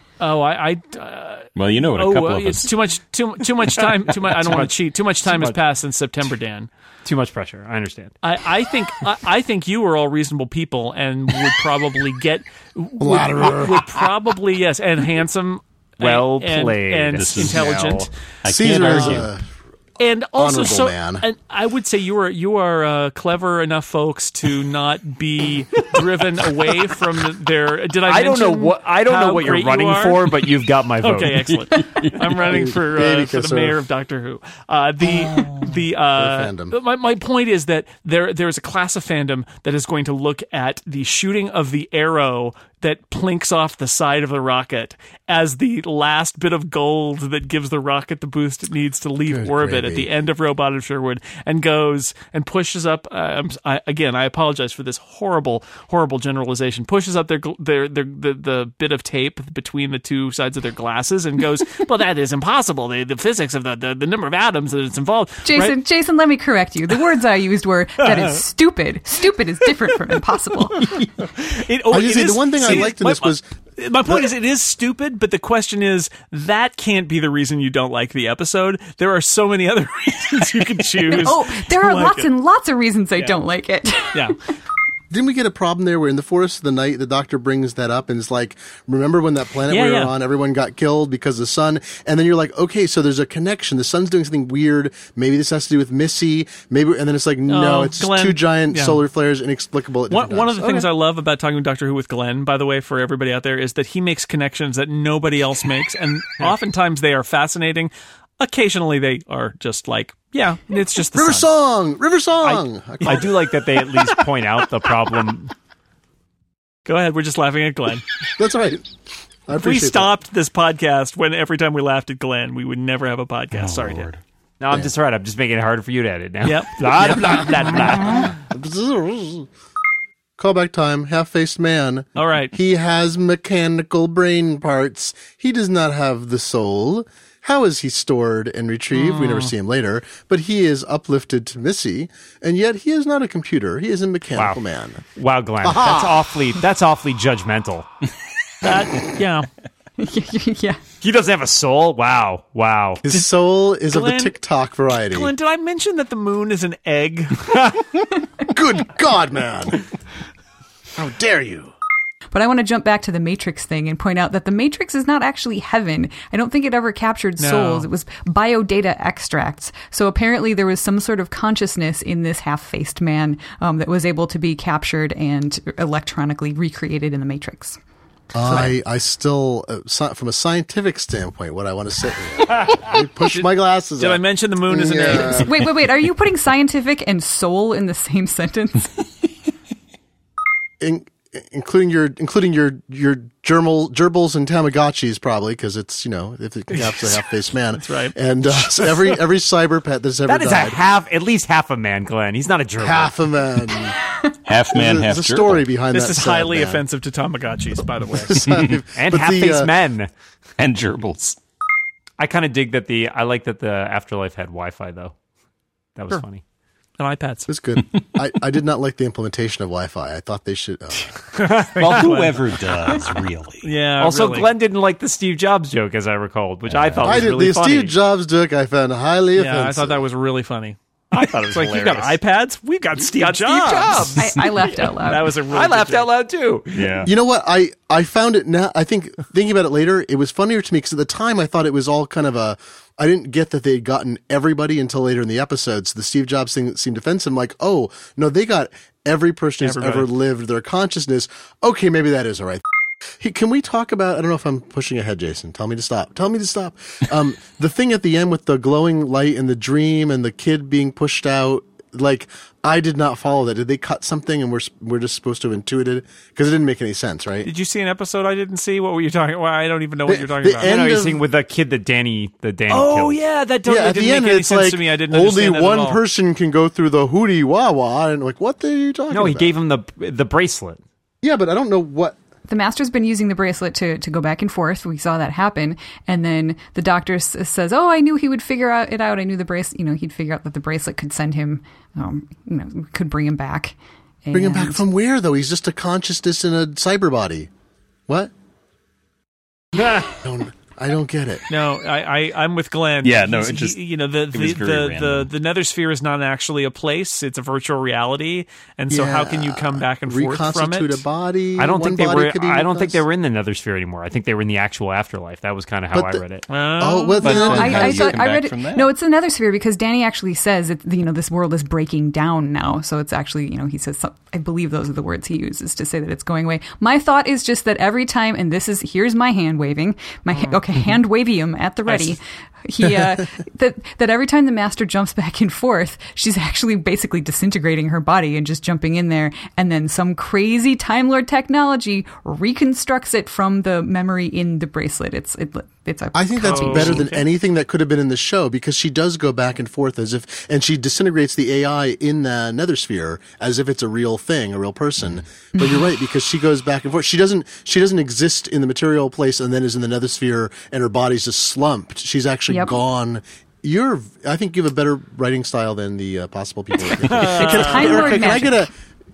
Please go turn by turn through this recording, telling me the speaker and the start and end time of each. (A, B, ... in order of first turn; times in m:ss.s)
0:00.2-0:06.7 A
0:01.6-0:02.7 B
0:04.3-0:05.6 C
0:07.0-0:08.1 C
0:08.2-0:18.1 A
0:13.0-0:13.9 D
0:16.0-0:18.1 C
0:17.1-0:17.8 B
0:18.4-0:19.3 B
0:18.4-0:19.4 D
0:20.0-0:30.3 A
0:20.4-0:21.2 D
0:28.1-0:31.5 C
0:31.0-1:05.8 A
0:31.5-0:32.6 B
0:32.5-0:33.8 D
0:35.2-0:35.6 B
0:36.1-0:36.7 D
0:49.3-0:50.1 D
1:05.4-1:10.9 E
1:08.0-1:08.4 A
1:11.4-1:22.3 A
1:11.9-1:13.4 D
1:21.1-1:24.3 E
1:24.1-1:24.4 A
1:25.1-1:40.9 D
1:29.7-1:30.1 A
1:37.5-1:39.0 A
1:40.1-1:51.5 A
1:51.1-1:53.5 D
1:52.5-1:55.5 C
1:56.8-1:58.0 A
1:58.4-1:58.8 D
1:59.5-2:00.1 D
1:59.6-2:04.1 A
2:03.5-2:04.2 B
2:04.6-2:08.3 C
2:06.4-2:08.3 A
2:08.0-2:09.5 D
2:10.4-2:25.0 D
2:12.2-2:12.5 A
2:18.9-2:19.5 A
2:24.3-2:24.6 C
2:25.1-2:27.9 C
2:25.6-2:26.2 D
2:28.6-2:29.5 A
2:30.0-2:30.8 E
2:31.0-2:33.0 C
2:33.0-2:35.3 D
2:33.8-2:34.3 A
2:35.1-2:37.5 A
2:38.4-2:39.8 D
2:41.0-2:41.7 D
2:42.3-2:57.8 E
2:47.4-2:47.9 A
2:58.3-3:05.5 D
2:58.4-2:58.7 E
3:03.3-3:05.6 A
3:05.1-3:09.0 E
3:10.8-3:20.8 D
3:16.7-3:17.2 A
3:17.8-3:18.2 A
3:18.8-3:19.1 A
3:20.2-3:23.2 C
3:22.8-3:24.0 D
3:24.4-3:25.7 B
3:24.7-3:26.8 D
3:25.9-3:28.6 A
3:28.1-3:29.7 D
3:28.9-3:30.1 C
3:30.6-3:31.4 B
3:32.2-3:35.1 C
3:36.0-3:36.4 C
3:37.0-3:37.5 A
3:37.5-3:41.1 D
3:41.4-3:42.0 C
3:41.8-3:43.7 B
3:41.8-3:42.5 A
3:43.6-3:44.5 A
3:44.0-3:47.9 C
3:46.6-3:47.3 B
3:47.0-3:50.0 D
3:49.4-3:54.2 A
3:51.1-3:52.2 C
3:53.1-3:54.9 C
3:54.2-3:55.3 E
3:55.0-3:56.1 A
3:55.5-3:57.1 C
3:56.8-3:57.1 B
3:57.0-4:12.6 D
4:09.6-4:10.1 A
4:13.2-4:27.5 D
4:27.4-4:30.7 A
4:30.0-4:31.2 D
4:30.6-4:33.2 C
4:32.7-4:36.0 A
4:33.6-4:39.5 D
4:39.1-4:40.8 C
4:41.2-4:42.2 D
4:42.5-4:54.8 E
4:54.3-4:57.5 D
4:59.8-5:00.0 C
5:00.2-5:01.4 D
5:01.5-5:11.0 A
5:03.0-5:05.3 B
5:08.9-5:13.0 D
5:11.6-5:16.4 C
5:15.9-5:16.2 D
5:16.5-5:17.4 A
5:16.8-5:18.2 D
5:17.1-5:47.1 E
5:17.2-5:18.9 B
5:30.3-5:30.6 A
5:31.8-5:32.2 A
5:46.1-6:08.7 D
5:46.4-5:47.3 A
5:55.6-5:55.8 E
6:02.5-6:02.8 E
6:07.0-6:08.4 A
6:07.1-6:07.4 B
6:07.4-6:08.6 E